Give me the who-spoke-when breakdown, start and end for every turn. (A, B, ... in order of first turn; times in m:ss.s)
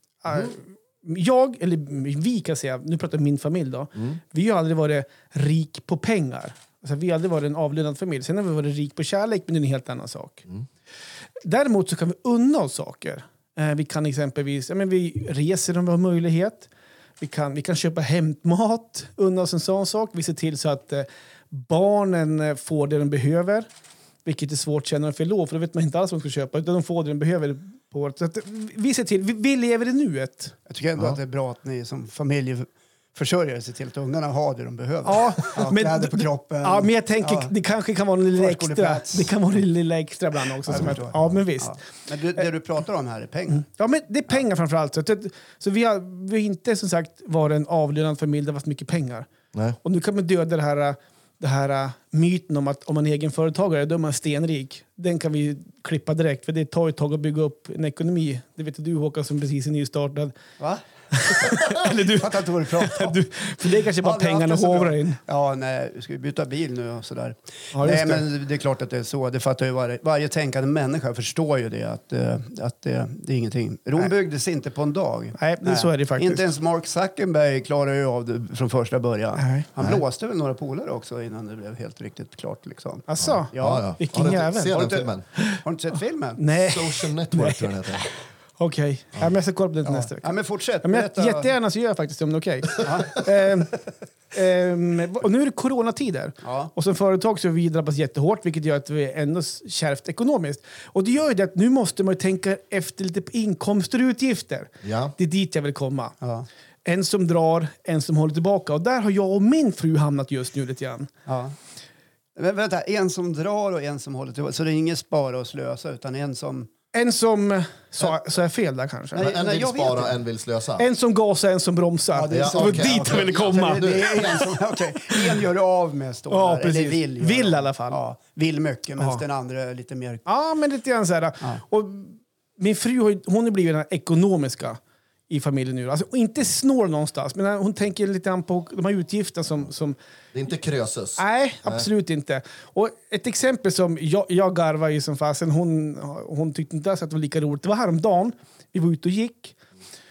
0:00.2-0:10.4 A
0:11.4-0:16.7 A
0:17.2-0:23.6 A
0:24.2-0:30.6 A
0:30.7-0:37.5 B
0:35.0-0:41.8 A
0:38.3-0:39.4 B
0:40.7-0:43.6 B
0:43.6-0:49.3 A
0:49.8-1:00.3 A
1:01.1-1:05.2 A
1:01.5-1:03.2 B
1:04.0-1:26.4 B
1:07.7-1:08.2 A
1:15.4-1:16.5 A
1:19.4-1:19.7 A
1:23.1-1:25.6 A
1:23.2-1:25.2 C
1:26.4-1:28.0 A
1:26.6-1:28.0 C
1:28.6-1:33.8 A
1:29.8-1:31.5 B
1:32.8-1:33.2 B
1:34.3-1:46.2 A
1:36.4-1:36.7 B
1:44.8-1:45.1 C
1:46.8-1:51.1 A
1:51.3-1:51.5 B
1:52.4-1:56.7 B
1:56.9-1:59.2 A
1:59.1-2:00.1 B
1:59.2-2:00.9 C
2:00.8-2:04.4 A
2:02.1-2:10.2 B
2:02.3-2:04.0 C
2:06.3-2:08.0 A
2:10.2-2:14.8 A
2:15.3-2:20.0 A
2:20.3-2:21.8 C
2:21.2-2:29.5 A